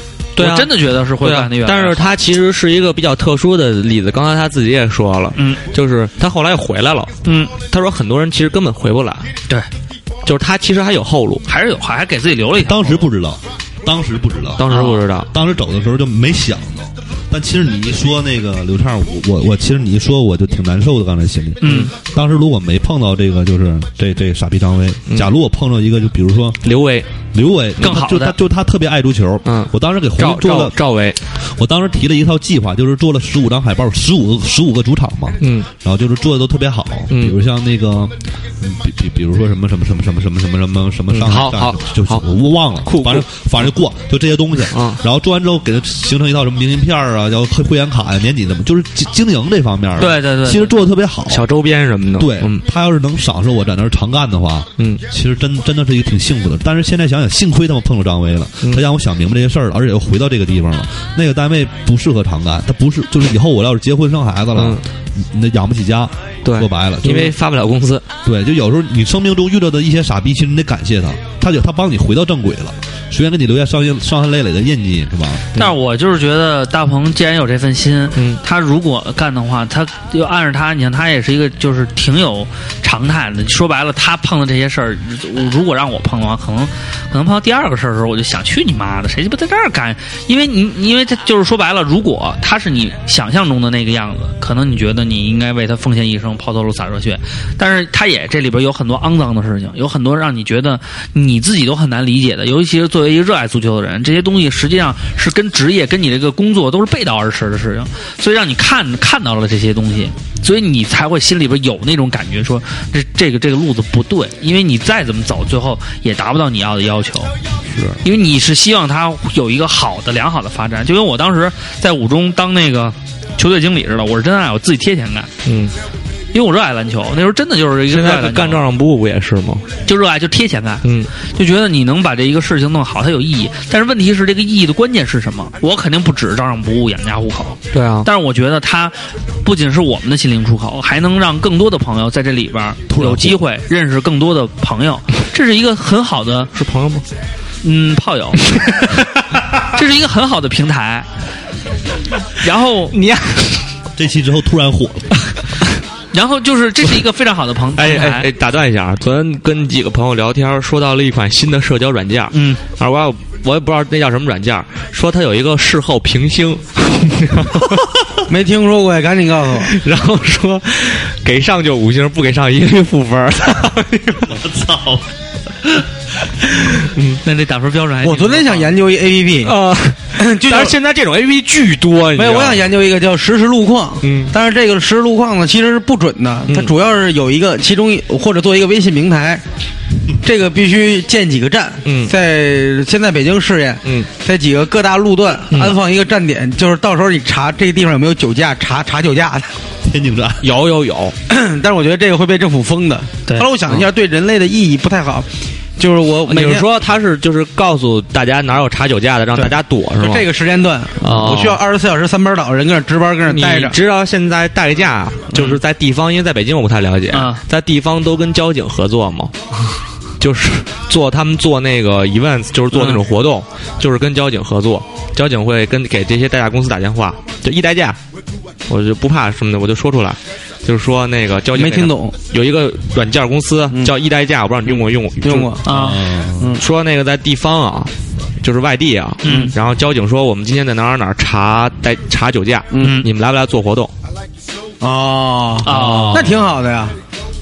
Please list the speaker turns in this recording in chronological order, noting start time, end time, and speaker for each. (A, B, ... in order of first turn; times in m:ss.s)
0:00.4-0:09.3 A
0:00.4-0:02.1 B
0:05.3-0:05.6 B
0:07.2-0:07.6 B
0:10.2-0:11.4 A
0:11.5-0:13.1 B
0:12.6-0:14.7 C
0:14.6-0:15.3 A
0:14.7-0:15.0 B
0:15.3-0:26.7 C
0:21.6-0:21.9 B
0:21.6-0:21.9 A
0:25.1-0:25.3 A
0:26.6-0:27.1 A
0:27.3-0:30.8 C
0:27.8-0:28.4 B
0:29.4-0:31.2 A
0:31.4-0:51.5 C
0:35.4-0:35.7 A
0:37.1-0:37.4 A
0:41.1-0:42.2 A
0:42.8-0:43.3 A
0:44.7-0:45.0 A
0:50.0-0:50.8 B
0:51.3-0:52.6 A
0:52.2-1:07.3 C
0:54.8-0:55.0 A
1:04.5-1:04.8 A
1:06.4-1:08.1 A
1:08.2-1:15.5 C
1:15.5-1:57.3 B
1:18.1-1:18.4 A
1:58.0-2:05.3 B
2:05.4-2:05.7 A
2:06.3-2:08.7 B
2:07.9-2:09.7 A
2:09.8-2:26.5 B
2:10.8-2:11.1 A
2:17.7-2:18.1 A
2:22.9-2:23.4 C
2:26.5-2:27.0 A
2:27.6-2:29.0 B
2:29.6-2:31.1 B
2:32.4-2:33.0 B
2:32.9-2:33.7 A
2:34.0-2:35.2 C
2:36.1-2:38.3 B
2:37.8-2:47.9 A
2:42.3-2:42.6 B
2:48.3-2:49.7 D
2:49.6-2:54.4 A
2:54.3-2:55.1 C
2:56.5-2:57.2 A
2:57.2-2:58.7 B
2:58.0-2:59.6 D
2:59.4-3:02.7 A
3:00.2-3:00.8 D
3:02.1-3:09.4 D
3:04.0-3:04.3 A
3:06.5-3:06.8 A
3:10.2-3:19.5 D
3:11.8-3:12.1 A
3:15.5-3:15.8 A
3:19.8-3:20.5 C
3:20.4-3:21.2 A
3:21.3-3:26.7 D
3:26.2-3:30.3 A
3:29.3-3:33.8 D
3:31.0-3:31.6 A
3:33.2-3:39.4 A
3:37.1-3:37.4 B
3:40.2-3:48.0 A
3:48.7-3:55.6 A
3:51.5-3:52.1 D
3:54.7-3:55.7 D
3:55.6-3:56.0 B
3:55.7-3:56.6 C
3:56.4-3:56.6 D
3:56.5-4:03.9 A
3:59.2-3:59.5 B
4:02.7-4:03.0 D
4:02.8-4:03.1 B
4:04.8-4:07.0 D
4:05.6-4:06.3 B
4:05.7-4:06.3 A